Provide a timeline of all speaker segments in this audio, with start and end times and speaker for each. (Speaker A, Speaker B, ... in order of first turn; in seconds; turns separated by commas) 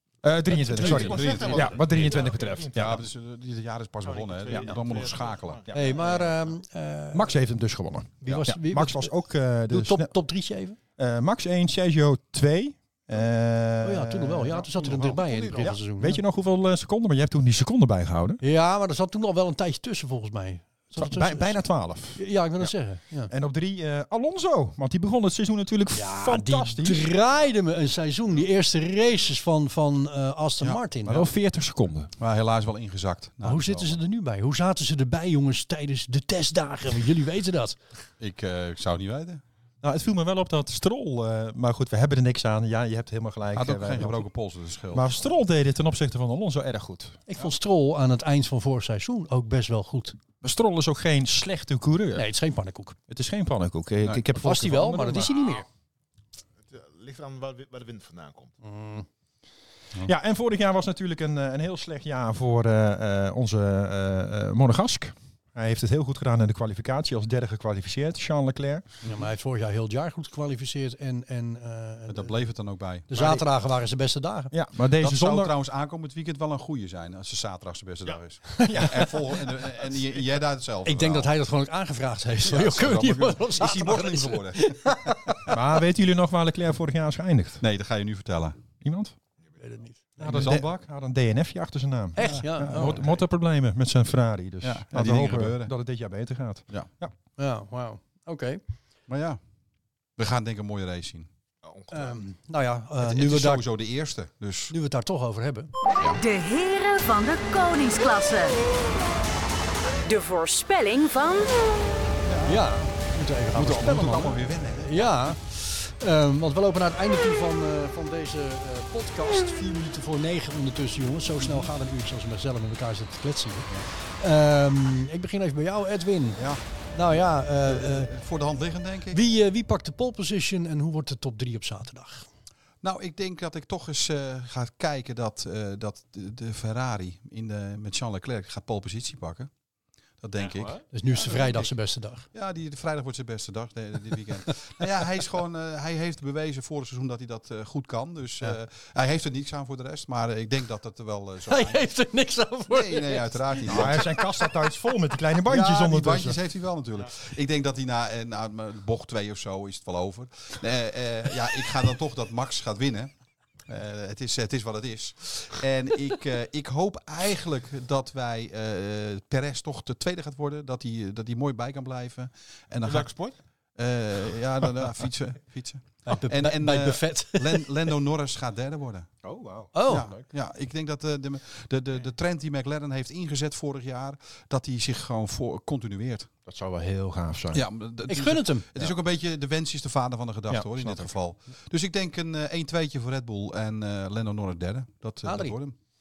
Speaker A: 0.2-3.0, Speaker B: 0.5-3.0, Speaker C: 0.7-5.6, Speaker B: 4.0-6.5, Speaker D: 5.7-7.3, Speaker A: 7.1-10.1, Speaker D: 8.2-9.1, Speaker D: 9.7-10.8, Speaker A: 11.0-14.6, Speaker D: 13.8-16.2, Speaker C: 14.7-15.7, Speaker A: 15.6-18.4, Speaker D: 18.4-21.6, Speaker A: 20.9-22.2, Speaker D: 22.1-23.3, Speaker A: 23.3-27.0, Speaker D: 25.9-31.3, Speaker C: 30.6-31.3, Speaker A: 31.1-32.1, Speaker C: 32.2-34.0, Speaker D: 33.4-37.8, Speaker C: 38.2-39.4, Speaker A: 39.8-44.3, Speaker C: 43.5-45.2, Speaker A: 44.9-47.2, Speaker D: 47.3-50.1, Speaker A: 50.4-52.3, Speaker D: 52.1-53.0, Speaker A: 53.1-55.4, Speaker D: 54.4-55.6, Speaker B: 56.7-58.5, Speaker D: 58.6-59.0, Speaker A: 60.0-68.8, Speaker D: 69.0-72.3, Speaker C: 72.1-73.4, Speaker D: 73.1-74.5, Speaker A: 74.5-75.5, Speaker C: 75.0-81.3, Speaker D: 78.5-79.1, Speaker A: 78.7-79.1, Speaker D: 80.8-85.3, Speaker C: 82.5-85.6, Speaker A: 85.5-87.6, Speaker C: 87.6-88.6, Speaker A: 88.8-89.1, Speaker D: 89.6-90.5, Speaker A: 90.2-97.1, Speaker C: 90.3-90.8, Speaker D: 92.1-93.0, Speaker C: 92.2-93.2, Speaker C: 94.6-95.7, Speaker D: 97.4-98.6, Speaker C: 99.1-99.4, Speaker C: 100.2-101.3, Speaker B: 101.6-102.2, Speaker D: 101.9-103.6, Speaker C: 103.0-104.7, Speaker D: 104.7-105.7, Speaker E: 106.2-108.6, Speaker E: 110.0-111.7, Speaker C: 112.2-112.8, Speaker D: 112.5-126.4, Speaker C: 113.5-115.3, Speaker D: 126.9-128.1, Speaker C: 127.6-129.2, Speaker D: 129.1-132.3, Speaker C: 132.8-139.5, Speaker C: 140.2-141.7, Speaker B: 140.4-140.8, Speaker D: 140.9-142.2, Speaker C: 142.3-151.8, Speaker D: 151.4-154.1, Speaker C: 152.7-154.2, Speaker A: 153.7-156.4, Speaker C: 155.4-163.1, Speaker C: 163.7-173.1, Speaker B: 172.8-173.3, Speaker C: 173.8-179.1, Speaker D: 176.1-177.9, Speaker A: 179.2-180.2, Speaker D: 179.7-180.1, Speaker C: 179.9-186.3, Speaker A: 186.5-187.6, Speaker C: 187.5-195.7, Speaker D: 188.1-188.7, Speaker A: 190.5-191.1, Speaker D: 195.2-195.6